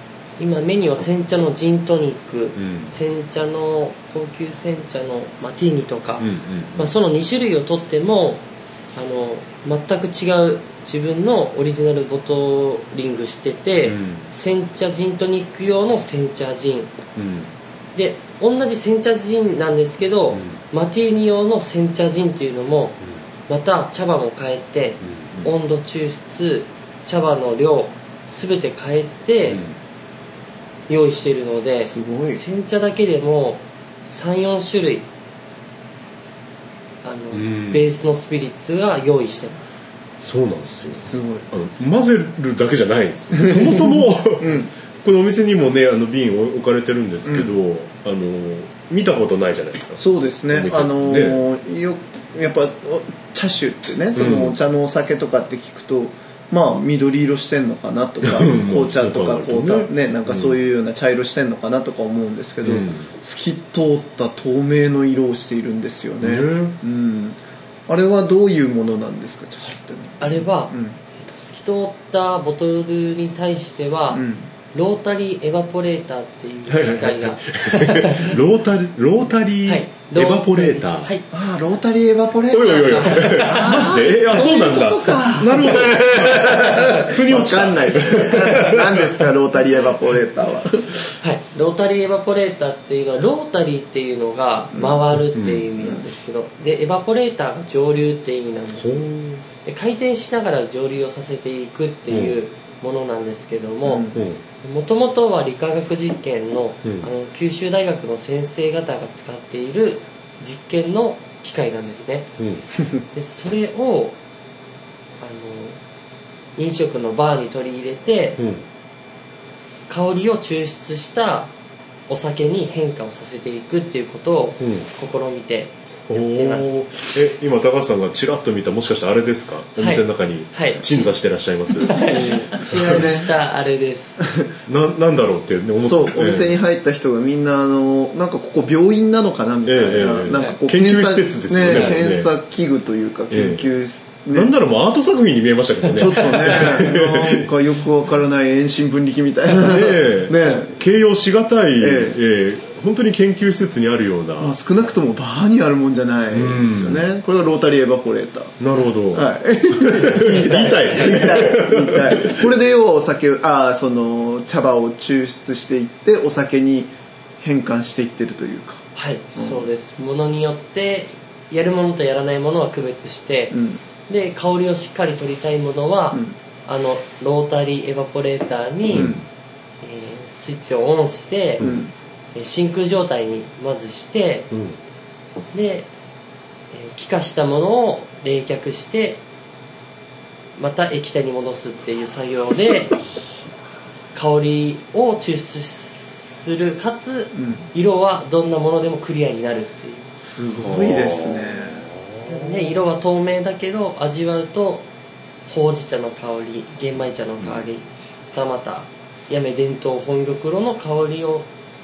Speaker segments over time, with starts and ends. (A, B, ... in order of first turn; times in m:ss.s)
0:00.4-0:08.4 A
0:02.6-0:03.0 B
0:06.2-0:06.9 B
0:09.0-0:16.9 A
0:13.8-0:14.3 B
0:17.2-0:17.5 B
0:18.0-0:23.0 A
0:20.3-0:20.6 B
0:23.5-0:29.6 A
0:25.0-0:25.5 B
0:29.5-0:29.8 B
0:30.9-0:35.1 A
0:31.8-0:32.4 C
0:37.0-0:39.8 A
0:37.3-0:37.9 B
0:40.2-0:51.4 B
0:40.9-0:41.5 C
0:43.4-0:44.7 C
0:47.3-0:47.5 C
0:50.0-1:11.0 C
0:54.2-0:54.6 B
0:58.2-1:00.6 B
1:02.6-1:03.1 B
1:06.2-1:06.8 B
1:10.2-1:18.4 A
1:14.1-1:14.5 C
1:16.7-1:21.1 B
1:19.7-1:21.2 A
1:21.3-1:31.1 C
1:22.5-1:29.3 B
1:23.0-1:23.9 A
1:31.2-1:39.1 A
1:34.7-1:35.0 C
1:35.3-1:35.7 B
1:38.8-1:39.4 B
1:39.6-1:52.3 A
1:42.1-1:42.4 B
1:43.8-1:44.1 C
1:44.1-1:44.4 B
1:46.8-1:47.1 B
1:52.4-1:52.7 B
1:53.1-1:54.2 A
1:55.2-1:55.8 A
1:56.6-1:58.4 A
1:58.4-1:58.6 B
1:59.9-2:01.5 A
2:02.1-2:06.8 A
2:04.6-2:04.9 B
2:06.1-2:11.9 B
2:09.8-2:10.8 A
2:11.8-2:14.2 A
2:11.9-2:13.3 C
2:14.2-2:14.5 C
2:14.7-2:16.6 B
2:15.8-2:24.5 C
2:19.7-2:22.4 B
2:23.3-2:23.7 B
2:24.3-2:27.5 B
2:26.0-2:30.8 C
2:26.1-2:26.6 A
2:29.5-2:34.6 B
2:31.8-2:32.2 C
2:34.4-2:49.7 C
2:36.3-2:37.1 B
2:38.6-2:42.5 B
2:49.0-2:59.1 A
2:53.5-2:53.8 C
2:58.9-2:59.2 B
2:58.9-2:59.2 C
2:59.8-3:01.6 A
3:01.6-3:01.9 C
3:02.4-3:04.5 A
3:04.5-3:04.8 B
3:05.5-3:05.9 A
3:06.7-3:09.2 A
3:10.6-3:13.0 A
3:14.1-3:20.1 A
3:17.3-3:17.7 C
3:20.2-3:21.9 C
3:20.6-3:22.8 B
3:22.3-3:24.9 A
3:25.5-3:31.5 A